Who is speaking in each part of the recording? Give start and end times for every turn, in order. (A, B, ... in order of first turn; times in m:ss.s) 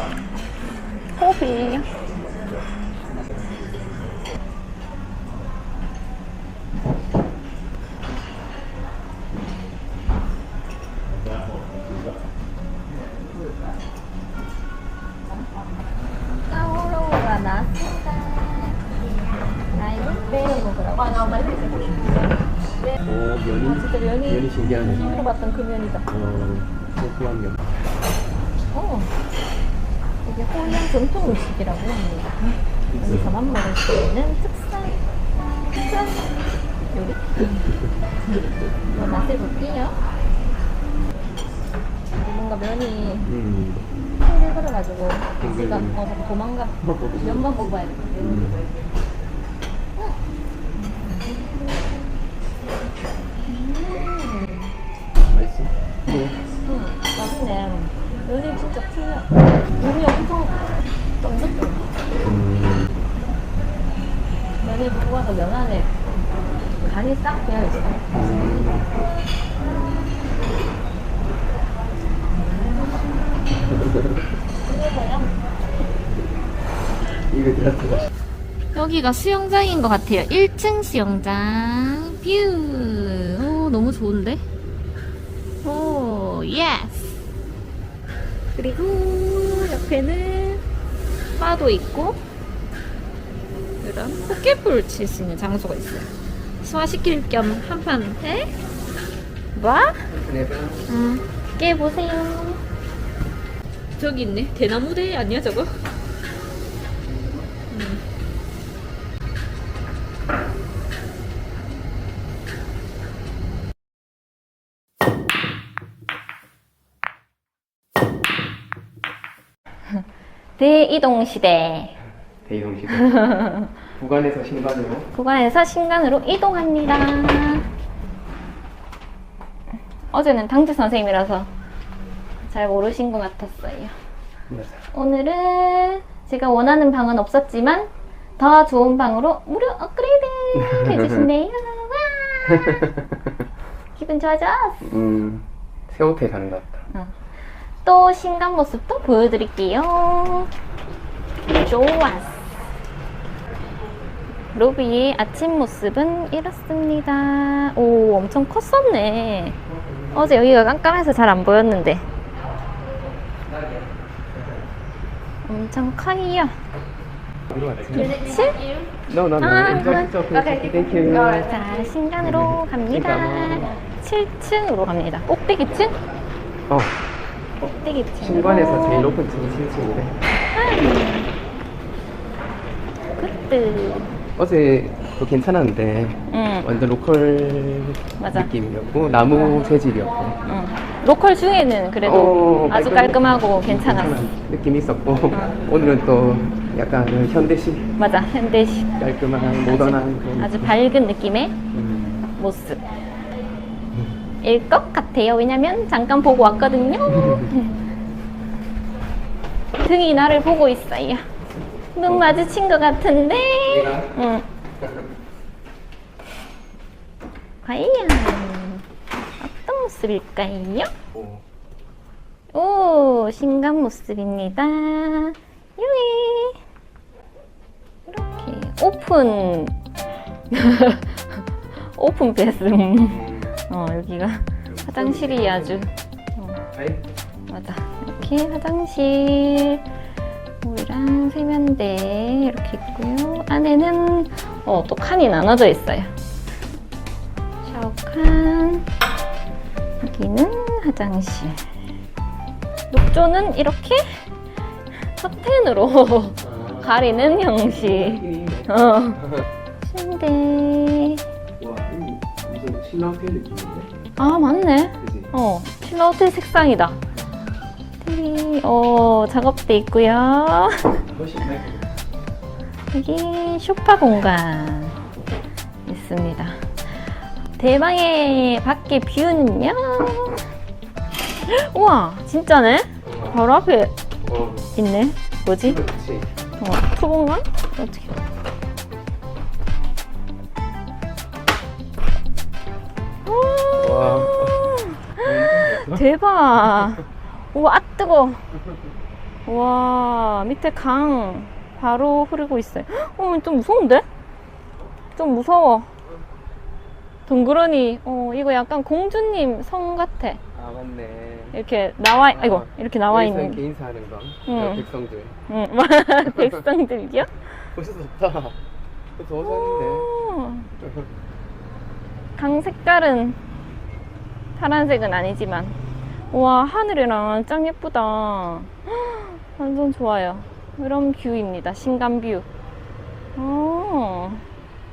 0:01.1-0:01.8 A
0:16.5-0:18.8 A
0:19.7-0:22.3 A
0:23.0-0:25.1 B
0:23.6-0:26.1 A
0:26.1-0:27.6 B
0:28.7-0:29.1 A
0:30.2-0:35.0 A
0:32.9-0:33.3 B
0:35.7-0:36.4 A
0:36.9-0:37.6 A
0:38.9-0:40.0 A
0:42.2-0:43.3 A
0:43.2-0:43.9 B
0:44.2-0:48.3 A
0:45.4-0:46.0 B
0:48.2-0:48.6 B
0:50.9-0:52.0 A
0:53.4-0:54.7 A
0:55.3-0:56.4 B
0:56.6-1:00.7 A
1:01.2-1:01.9 A
1:02.2-1:02.9 B
1:04.6-1:05.9 A
1:06.8-1:08.7 A
1:08.1-1:08.9 B
1:12.6-1:13.0 A
1:14.7-1:15.3 A
1:17.3-1:18.1 B
1:18.7-1:24.4 A
1:25.6-1:27.2 A
1:28.6-1:30.6 A
1:31.4-1:32.2 A
1:33.8-1:36.1 A
1:36.6-1:38.5 A
1:39.5-1:40.1 A
1:40.1-1:40.8 B
1:40.9-1:42.6 A
1:44.0-1:45.7 A
1:47.7-1:48.0 A
2:00.6-2:02.0 A
2:02.4-2:03.2 B
2:03.0-2:03.7 A
2:04.0-2:05.1 B
2:05.1-2:07.7 A
2:10.1-2:11.5 A
2:12.4-2:13.9 A
2:14.5-2:14.8 B
2:14.9-2:23.0 A
2:20.6-2:21.3 B
2:24.0-2:25.0 A
2:24.8-2:26.8 B
2:26.9-2:27.2 A
2:27.8-2:30.5 A
2:31.5-2:32.5 A
2:34.5-2:39.6 A
2:40.1-2:42.0 A
2:45.4-2:46.6 A
2:47.5-2:48.2 B
2:48.0-2:48.8 A
2:49.1-2:51.5 B
2:49.4-2:50.1 A
2:51.2-2:56.0 A
2:52.2-2:53.7 B
2:56.7-2:57.0 B
2:57.6-2:59.2 A
2:58.2-3:00.2 B
3:00.5-3:01.3 A
3:03.2-3:04.1 A
3:04.4-3:10.4 B
3:06.3-3:06.7 A
3:08.2-3:08.5 A
3:10.4-3:14.2 A
3:12.0-3:17.9 B
3:18.0-3:21.6 A
3:19.0-3:20.7 B
3:21.7-3:22.2 B
3:22.4-3:22.8 A
3:24.4-3:27.8 A
3:29.8-3:31.2 A
3:31.9-3:34.4 A
3:33.6-3:34.1 B
3:37.6-3:38.8 A
3:39.4-3:40.9 A
3:41.1-3:41.4 B
3:42.5-3:46.6 A
3:48.1-3:49.8 A
3:50.5-3:56.6 A
3:53.0-3:53.6 B
3:54.7-3:55.9 B
3:56.7-3:57.0 B
3:57.5-3:59.8 A
4:00.6-4:06.1 A
4:07.6-4:08.9 A
4:10.0-4:11.6 A
4:12.9-4:14.2 A
4:15.2-4:19.3 A
4:16.4-4:18.7 B
4:19.8-4:21.2 A
4:21.6-4:23.9 B
4:24.2-4:27.0 A
4:25.0-4:25.3 B
4:28.0-4:31.0 A
4:31.0-4:31.9 B
4:32.9-4:35.0 A
4:35.8-4:36.7 A
4:37.6-4:40.5 A
4:41.5-4:43.9 A
4:43.0-4:43.4 B
4:44.2-4:44.7 B
4:44.7-4:45.8 A
4:45.6-4:46.3 B
4:46.6-4:48.1 A
4:53.2-4:58.4 A
4:53.8-4:54.6 B
4:55.2-4:56.0 B
4:59.4-5:04.1 A
5:05.2-5:05.9 A
5:07.3-5:10.4 A
5:10.5-5:11.6 B
5:11.5-5:13.6 A
5:12.3-5:15.4 B
5:14.5-5:14.8 A
5:15.5-5:17.5 A
5:17.7-5:18.6 B
5:19.2-5:20.1 B
5:19.4-5:20.7 A
5:22.4-5:23.4 A
5:24.6-5:25.8 A
5:26.3-5:32.5 A
5:33.4-5:34.4 A